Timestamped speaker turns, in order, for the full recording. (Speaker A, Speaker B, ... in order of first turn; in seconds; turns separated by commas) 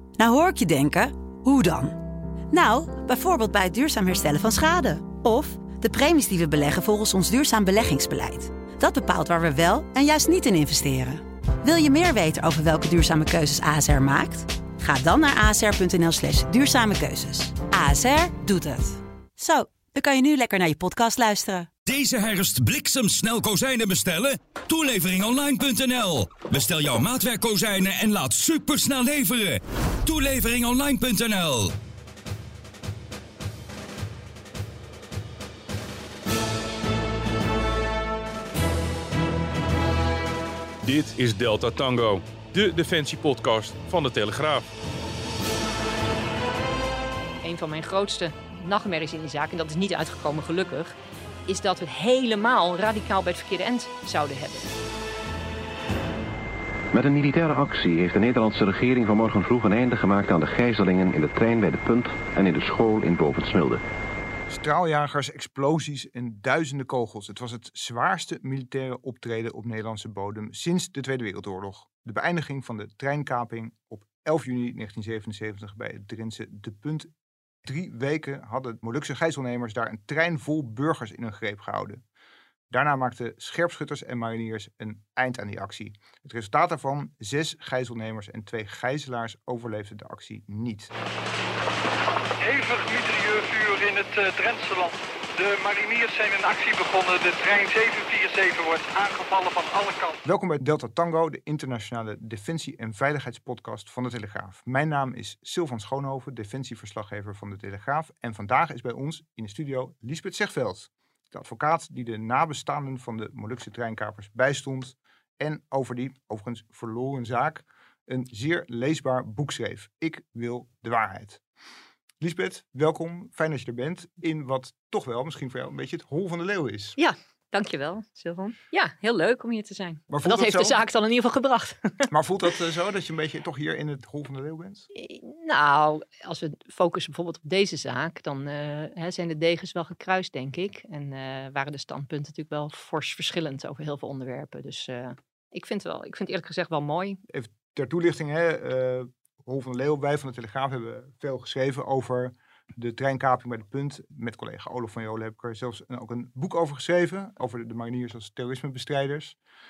Speaker A: 0.2-2.0, Speaker A: 2.5-21.7, Speaker B: 21.9-31.7, Speaker C: 40.8-44.7, Speaker D: 47.4-50.9, Speaker D: 51.5-54.7, Speaker E: 56.9-63.8, Speaker F: 64.5-77.1, Speaker F: 77.6-82.0, Speaker F: 82.7-90.9, Speaker G: 92.4-100.2, Speaker F: 100.2-121.4, Speaker F: 122.2-127.0, Speaker D: 127.0-132.1, Speaker F: 130.1-130.8, Speaker F: 132.1-134.9, Speaker D: 134.9-147.2, Speaker F: 147.3-159.3